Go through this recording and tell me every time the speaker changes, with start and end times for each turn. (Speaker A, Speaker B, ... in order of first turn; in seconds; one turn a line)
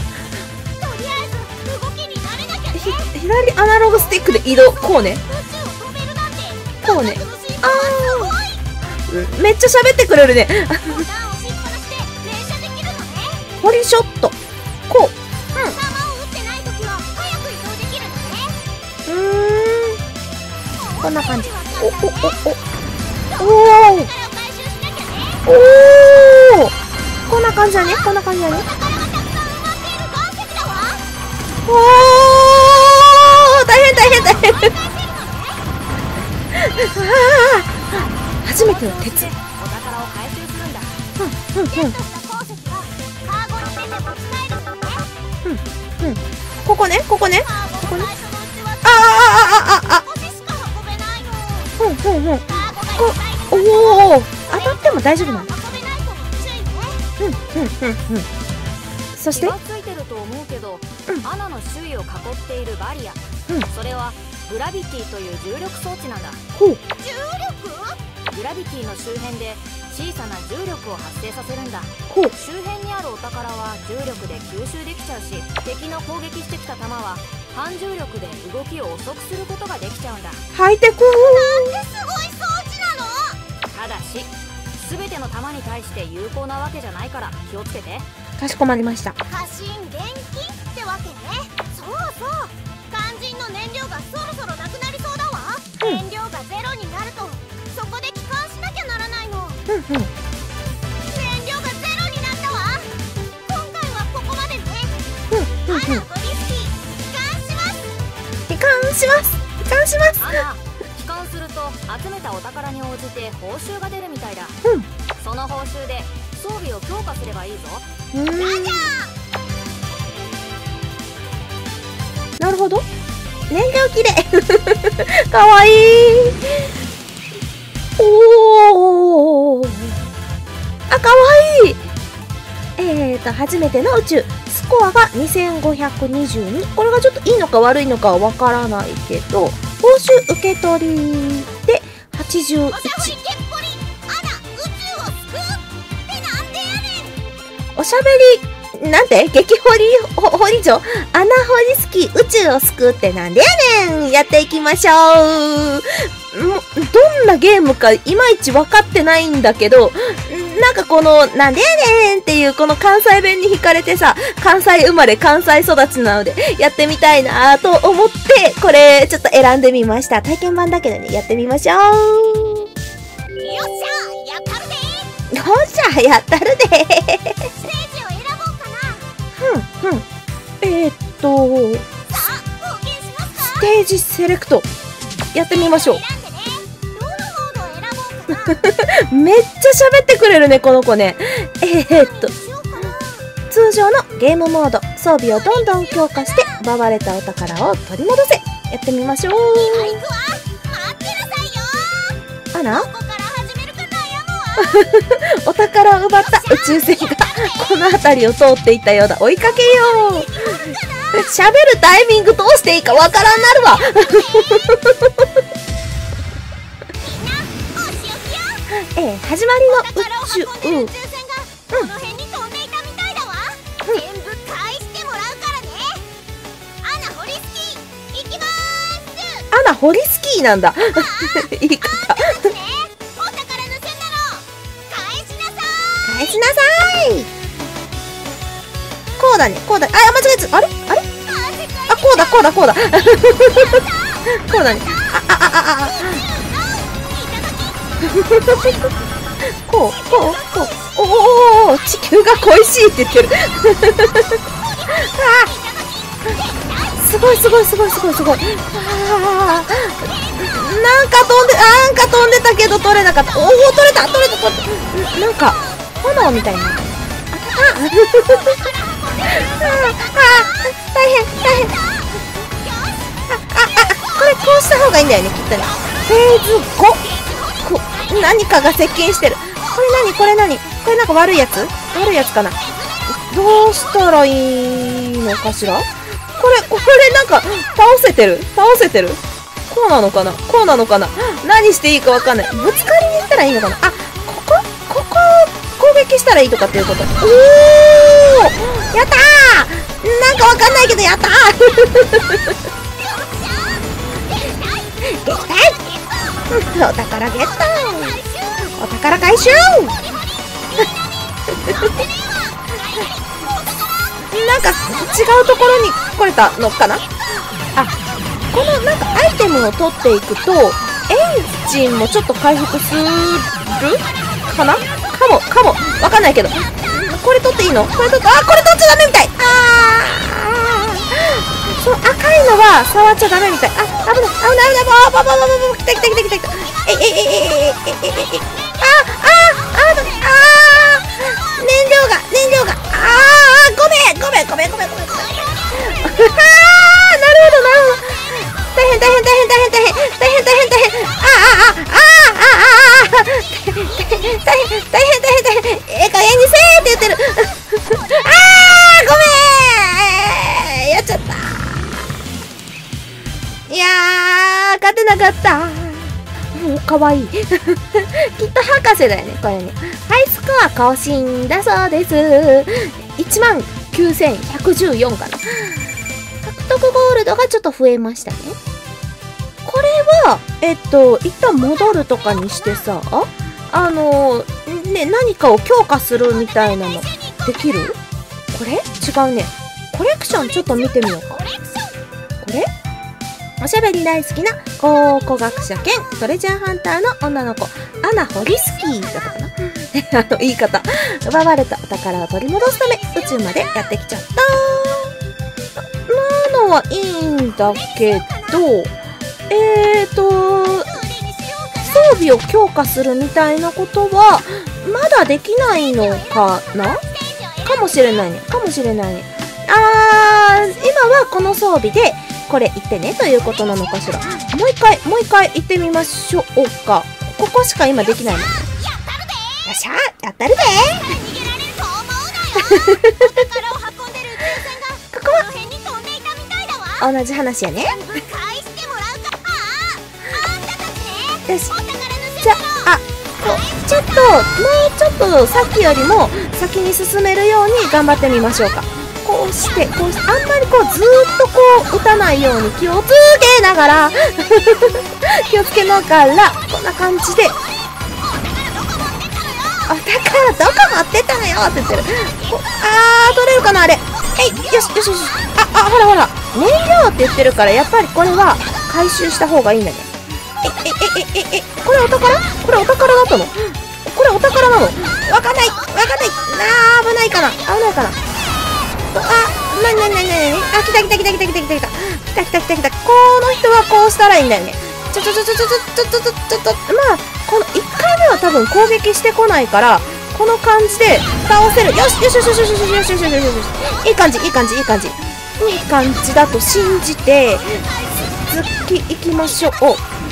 Speaker A: 0.7-8.6
Speaker B: 2.7-5.2
Speaker B: 6.8-8.4
Speaker B: 9.1-11.1
Speaker A: 10.8-13.5
Speaker B: 13.6-14.4
Speaker B: 14.9-15.8
Speaker A: 15.7-18.6
Speaker B: 19.1-20.0
Speaker A: 20.7-22.4
Speaker B: 21.0-22.6
Speaker A: 23.3-25.5
Speaker B: 23.4-24.1
Speaker B: 25.4-26.7
Speaker B: 27.3-28.7
Speaker A: 28.0-31.1
Speaker B: 31.6-34.7
Speaker A: 33.9-35.6
Speaker B: 36.5-39.3
Speaker C: 38.5-41.0
Speaker B: 41.2-41.9
Speaker A: 41.7-45.1
Speaker B: 45.4-48.1
Speaker A: 47.3-51.7
Speaker B: 48.8-50.0
Speaker B: 51.8-55.5
Speaker A: 52.5-57.0
Speaker B: 57.2-58.3
Speaker B: 59.1-59.5
Speaker C: 59.3-66.4
Speaker B: 66.5-66.8
Speaker A: 67.0-68.0
Speaker C: 68.3-80.4
Speaker B: 72.1-72.3
Speaker B: 80.5-81.8
Speaker A: 81.1-83.4
Speaker C: 83.7-88.0
Speaker B: 88.4-89.2
Speaker A: 89.3-99.6
Speaker B: 99.7-100.1
Speaker A: 101.1-102.9
Speaker A: 103.5-105.1
Speaker B: 105.3-106.0
Speaker A: 105.7-107.9
Speaker B: 108.5-110.4
Speaker C: 110.2-114.6
Speaker C: 115.2-117.8
Speaker B: 118.1-119.0
Speaker A: 118.4-119.1
Speaker B: 122.4-122.8
Speaker B: 123.5-126.7
Speaker B: 128.0-129.9
Speaker B: 130.9-131.8
Speaker B: 132.8-143.1
Speaker A: 142.7-147.2
Speaker B: 147.8-172.7
Speaker A: 173.4-175.1
Speaker B: 175.3-177.5
Speaker A: 177.5-179.1
Speaker B: 179.4-180.1
Speaker B: 180.6-182.1
Speaker A: 182.1-183.7
Speaker B: 183.4-184.7
Speaker B: 185.3-186.0
Speaker A: 185.5-188.6
Speaker B: 188.3-192.3
Speaker A: 191.9-193.3
Speaker B: 193.5-200.0
Speaker A: 195.3-196.6
Speaker A: 199.5-204.9
Speaker B: 202.5-202.9
Speaker B: 204.6-215.3
Speaker A: 206.1-207.8
Speaker A: 209.4-211.3
Speaker A: 212.8-214.8
Speaker A: 217.0-218.7
Speaker B: 218.8-220.9
Speaker A: 219.7-226.1
Speaker A: 226.8-229.5
Speaker B: 229.5-232.5
Speaker A: 230.9-236.4
Speaker B: 236.0-237.3
Speaker B: 239.2-241.0
Speaker A: 241.1-244.4
Speaker B: 241.9-246.2
Speaker A: 245.7-248.9
Speaker B: 248.1-248.9
Speaker B: 249.4-254.4
Speaker A: 249.8-250.9
Speaker A: 254.2-258.5
Speaker B: 255.0-255.5
Speaker B: 257.0-268.6
Speaker A: 259.1-265.8
Speaker A: 268.2-274.9
Speaker B: 269.3-271.7
Speaker B: 273.3-277.0
Speaker A: 275.6-278.6
Speaker B: 277.6-282.6
Speaker A: 281.8-284.1
Speaker B: 283.1-302.5
Speaker A: 302.9-306.6
Speaker B: 305.0-305.8
Speaker B: 306.5-308.2
Speaker A: 307.1-308.8
Speaker B: 308.8-309.9
Speaker A: 309.9-310.9
Speaker A: 311.5-315.7
Speaker B: 314.3-317.0
Speaker B: 318.5-361.7
Speaker A: 324.2-324.9
Speaker A: 336.1-337.2
Speaker A: 338.1-341.7
Speaker A: 344.9-346.4
Speaker A: 347.8-351.4
Speaker A: 353.2-354.8
Speaker B: 363.7-375.8
Speaker B: 376.4-378.6
Speaker B: 379.6-388.0
Speaker A: 381.9-382.9
Speaker A: 386.2-387.9
Speaker B: 388.5-391.4
Speaker A: 390.3-392.0
Speaker B: 392.4-392.7
Speaker B: 393.6-405.1
Speaker A: 395.0-396.2
Speaker A: 398.4-399.4
Speaker A: 402.6-403.9
Speaker B: 405.8-408.9
Speaker A: 407.5-408.7
Speaker B: 409.5-410.9
Speaker A: 410.6-412.2
Speaker B: 411.8-417.0
Speaker A: 416.0-418.2
Speaker B: 417.6-428.5
Speaker A: 428.0-429.7
Speaker B: 429.6-431.1
Speaker A: 430.9-437.1
Speaker B: 432.7-433.2
Speaker B: 435.1-435.5
Speaker B: 437.0-438.0
Speaker A: 437.9-443.9
Speaker B: 441.5-441.7
Speaker B: 442.4-457.6
Speaker A: 453.7-454.9
Speaker A: 456.0-461.0
Speaker B: 459.9-470.1
Speaker A: 461.9-462.7
Speaker A: 463.3-465.5
Speaker B: 470.6-478.2
Speaker B: 479.1-500.0
Speaker A: 497.2-498.5